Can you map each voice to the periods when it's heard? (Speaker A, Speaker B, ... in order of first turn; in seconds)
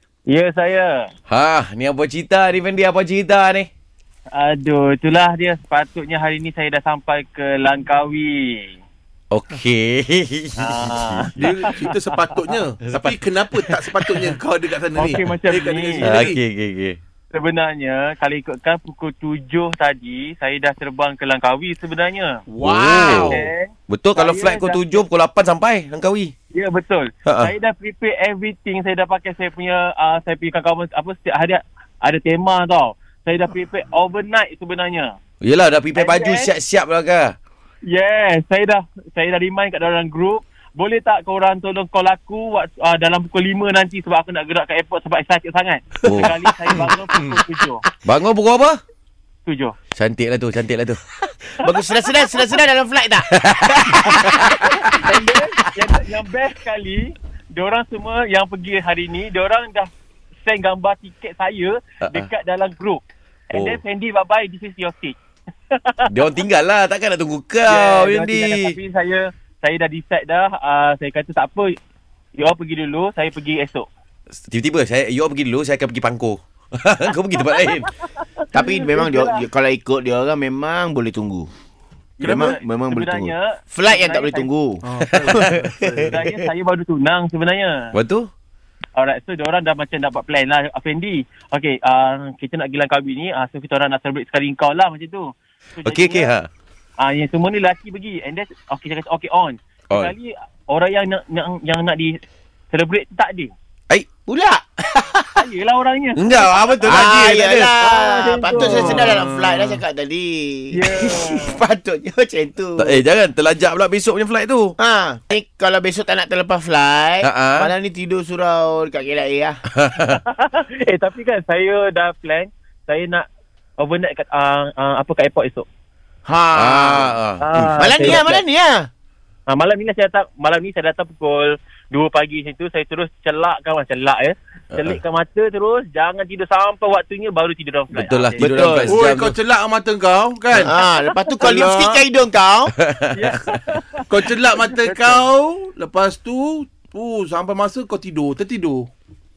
Speaker A: 0.3-1.1, 4.3-8.8, 10.6-11.8, 15.0-16.3, 17.3-22.4, 23.3-25.0, 26.5-35.2, 36.0-36.5, 37.9-47.9, 49.5-49.8, 54.6-59.9, 60.4-65.2, 65.7-66.1, 67.7-71.7, 72.4-73.9, 78.7-79.4, 82.2-84.5, 86.0-87.9, 89.0-96.3, 97.0-102.2, 102.7-103.5, 105.3-106.8, 107.8-109.1, 110.7-111.6, 120.1-123.2, 123.8-125.7, 127.4-128.4, 129.5-138.8, 143.1-144.1, 144.8-145.2
Speaker B: 1.3-3.7, 9.3-11.5, 12.9-14.3, 16.0-17.0, 22.6-26.3, 27.2-27.5, 35.4-37.4, 46.1-46.3, 48.0-48.8, 50.0-51.0, 53.3-54.5, 63.5-63.8, 66.1-68.8, 74.4-77.9, 87.9-88.3, 95.8-96.5, 106.2-107.7, 112.8-114.8, 117.2-117.7, 119.8-120.2, 126.5-127.4, 134.7-135.0, 137.9-139.3, 142.8-143.1
Speaker C: 11.4-16.4, 22.5-23.4, 82.2-82.5, 84.8-86.1, 108.6-109.8, 138.9-140.8, 141.4-142.0, 144.1-148.9
Speaker D: 22.6-23.4, 51.5-54.7, 78.5-81.5, 82.2-86.2, 104.3-105.4, 106.8-113.0, 114.8-119.6, 126.3-128.9, 138.4-139.0, 140.6-142.7